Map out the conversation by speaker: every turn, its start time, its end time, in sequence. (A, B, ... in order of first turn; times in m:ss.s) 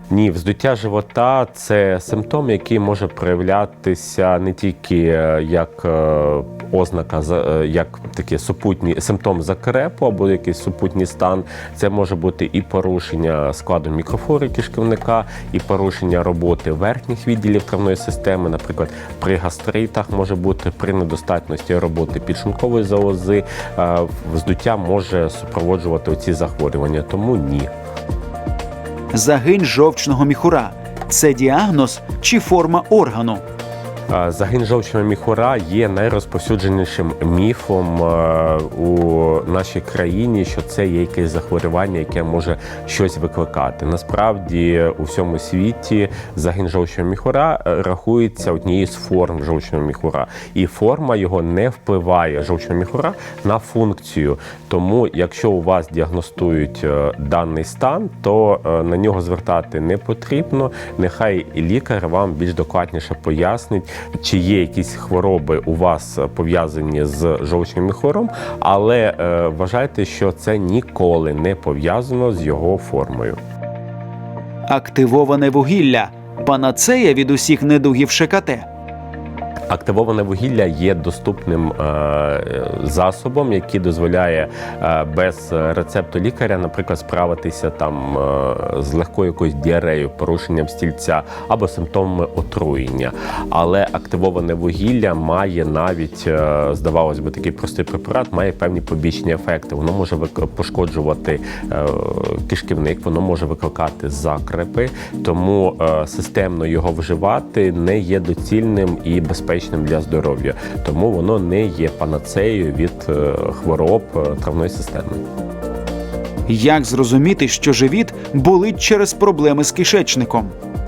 0:00.1-0:27.7 A
0:29.1-0:33.4 B
0:34.1-1:13.4 A
1:14.7-1:18.7 B
1:19.7-1:55.2 A
1:56.5-2:00.5 B